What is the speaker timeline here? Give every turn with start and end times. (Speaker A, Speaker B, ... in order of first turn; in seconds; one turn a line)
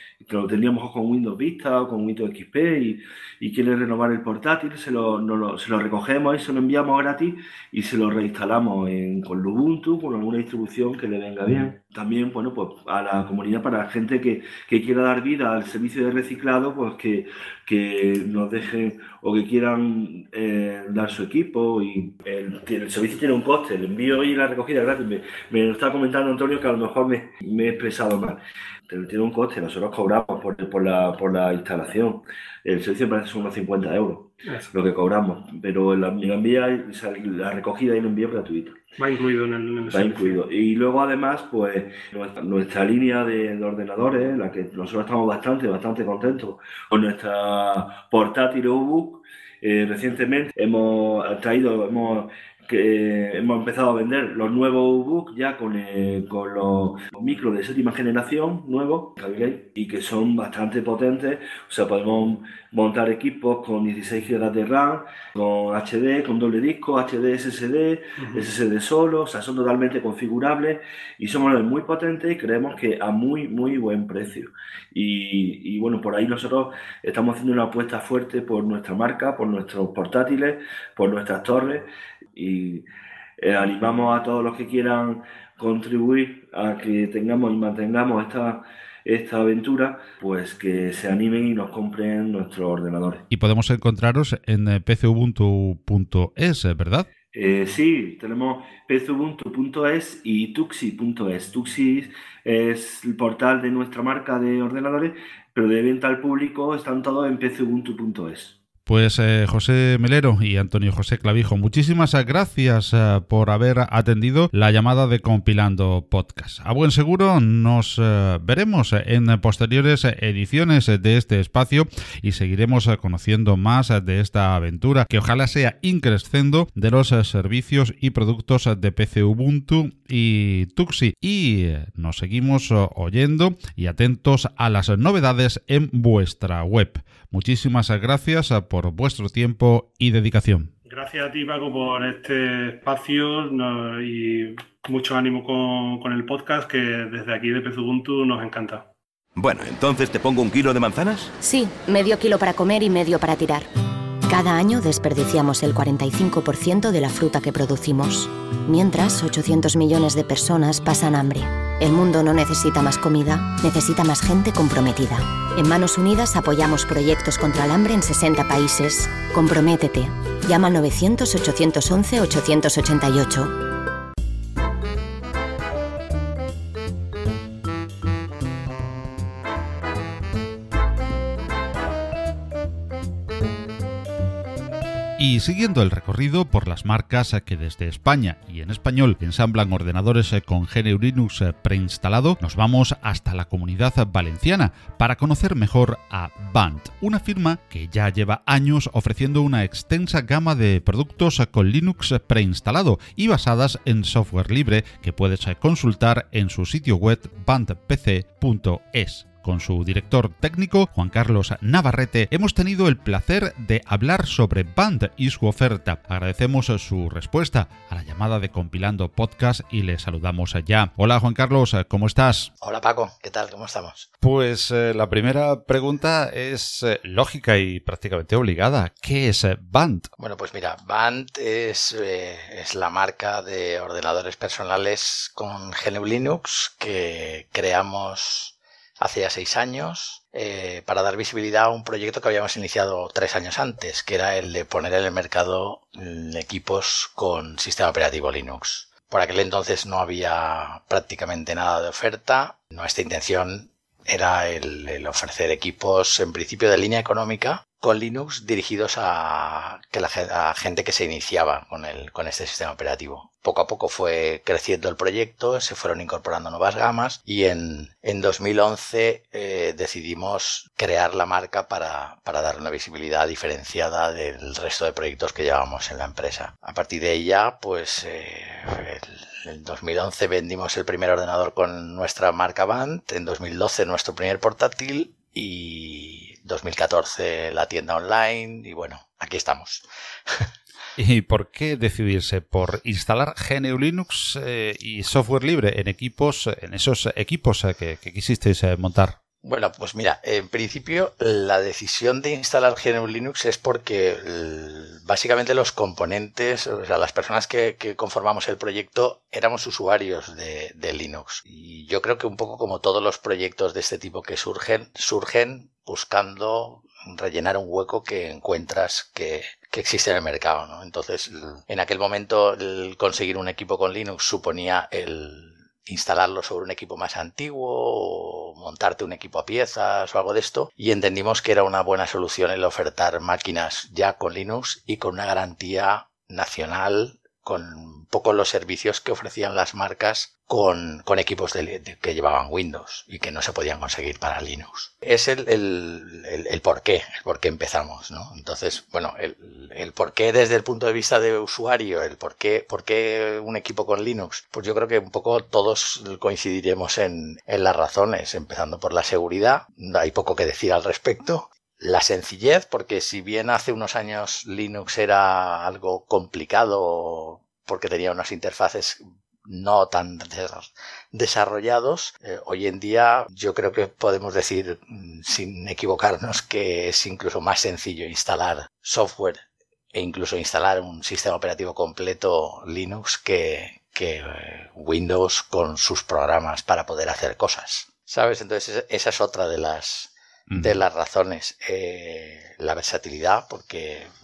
Speaker A: 0.2-38.8
Speaker B: 34.4-34.7
Speaker B: 39.0-40.4
Speaker A: 39.9-82.8
Speaker B: 68.2-68.5
Speaker A: 83.4-93.2
Speaker C: 93.3-97.1
Speaker A: 97.3-108.5
Speaker C: 108.9-140.7
Speaker B: 140.8-148.9
Speaker D: 149.4-151.3
Speaker E: 151.4-153.7
Speaker E: 154.3-173.6
Speaker C: 185.2-222.5
Speaker F: 222.6-224.1
Speaker C: 224.2-230.1
Speaker F: 230.2-289.8
Speaker C: 291.0-299.1
Speaker F: 299.4-394.1
Speaker C: 390.5-390.8